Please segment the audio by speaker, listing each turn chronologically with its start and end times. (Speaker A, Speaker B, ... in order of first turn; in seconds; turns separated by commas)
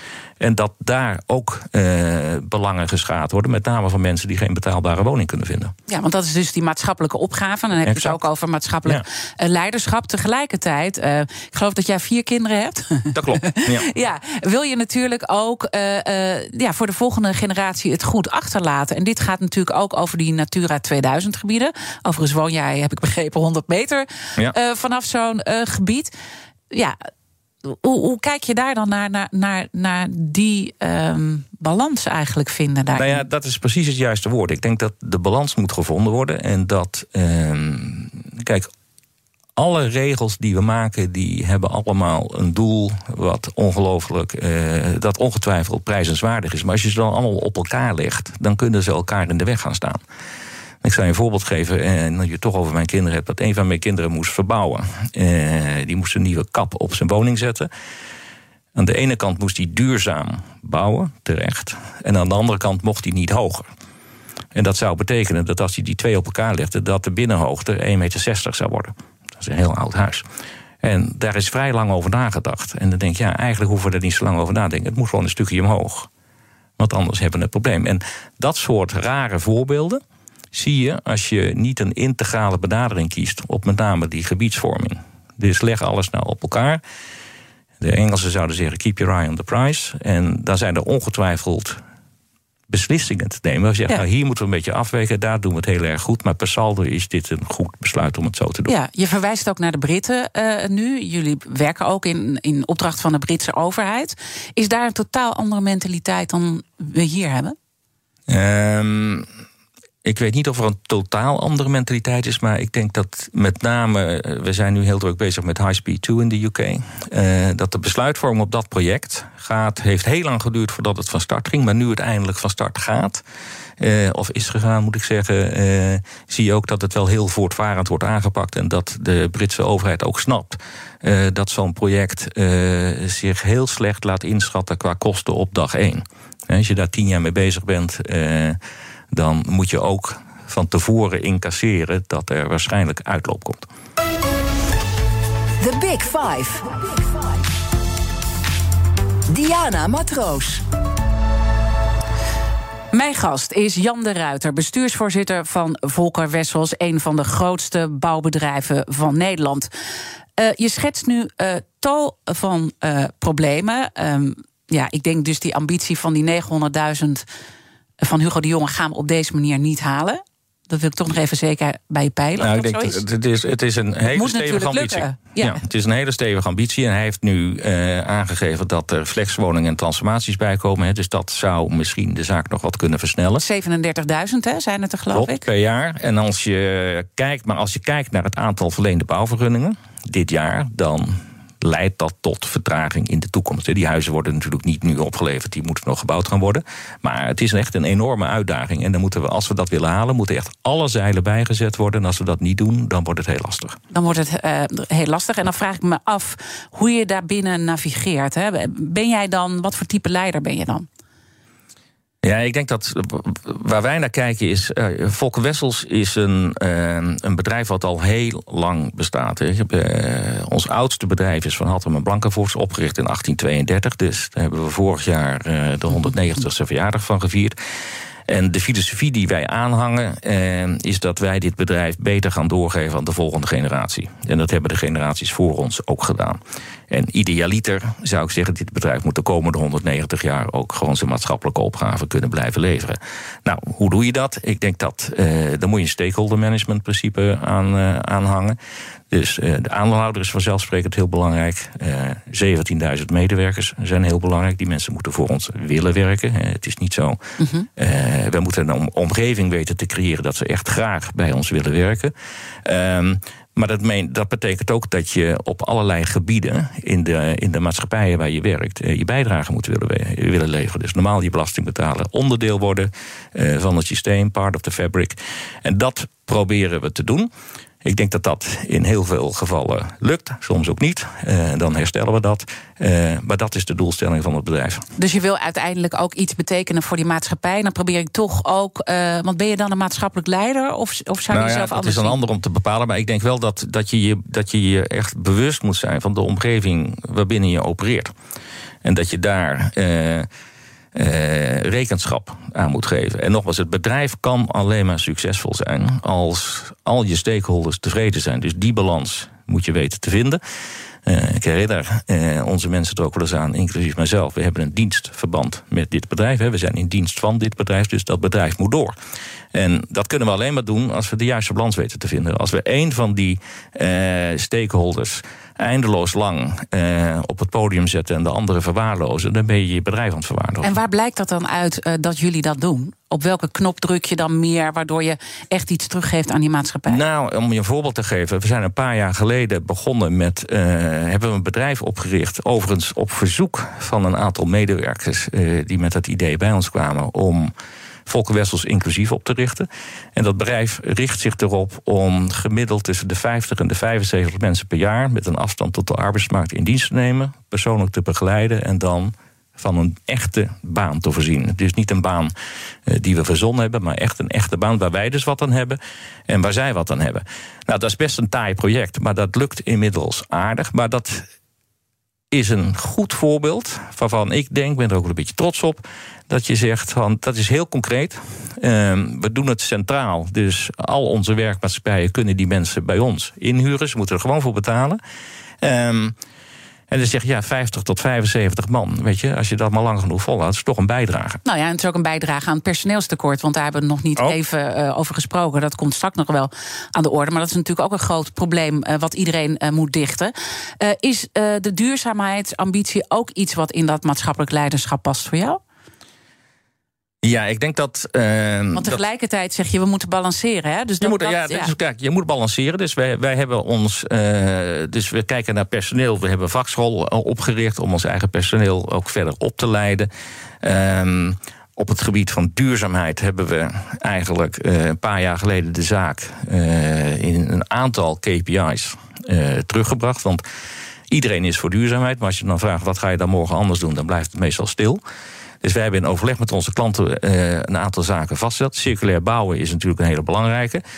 Speaker A: 0.4-5.7, Speaker B: 5.9-26.1, Speaker A: 7.8-8.2, Speaker A: 13.1-13.9, Speaker B: 26.7-27.0, Speaker B: 27.6-33.2, Speaker A: 33.0-38.7, Speaker A: 39.6-50.0, Speaker A: 50.8-57.7, Speaker A: 58.8-63.7, Speaker A: 64.5-70.3, Speaker A: 70.8-76.1, Speaker A: 76.8-80.0, Speaker A: 80.5-86.8, Speaker A: 87.8-91.8, Speaker A: 92.7-98.7, Speaker B: 98.7-107.6, Speaker A: 108.3-109.3, Speaker A: 110.0-123.2, Speaker A: 123.8-138.6, Speaker A: 139.1-143.7, Speaker C: 145.6-146.9, Speaker C: 149.3-150.6, Speaker B: 152.9-159.7, Speaker B: 160.4-167.2, Speaker B: 168.0-173.0, Speaker A: 172.4-183.4, Speaker B: 174.1-175.6, Speaker B: 183.4-185.5, Speaker A: 185.1-203.8, Speaker B: 203.9-210.9, Speaker A: 212.2-227.6, Speaker A: 228.3-248.6, Speaker A: 249.1-277.3, Speaker B: 257.4-257.7, Speaker A: 277.8-284.9, Speaker B: 285.0-292.2, Speaker A: 291.3-298.1, Speaker A: 298.8-300.3, Speaker A: 300.9-310.4, Speaker A: 311.1-318.9, Speaker A: 319.5-330.7, Speaker B: 330.6-337.0, Speaker A: 336.9-347.5, Speaker A: 348.1-362.3, Speaker A: 362.9-371.3, Speaker A: 372.3-385.0, Speaker A: 385.6-386.2, Speaker A: 386.9-391.4, Speaker B: 391.4-405.6, Speaker A: 407.2-409.0, Speaker B: 408.8-411.7, Speaker A: 411.0-420.1, Speaker A: 420.6-430.4, Speaker A: 431.1-435.0, Speaker A: 435.6-440.8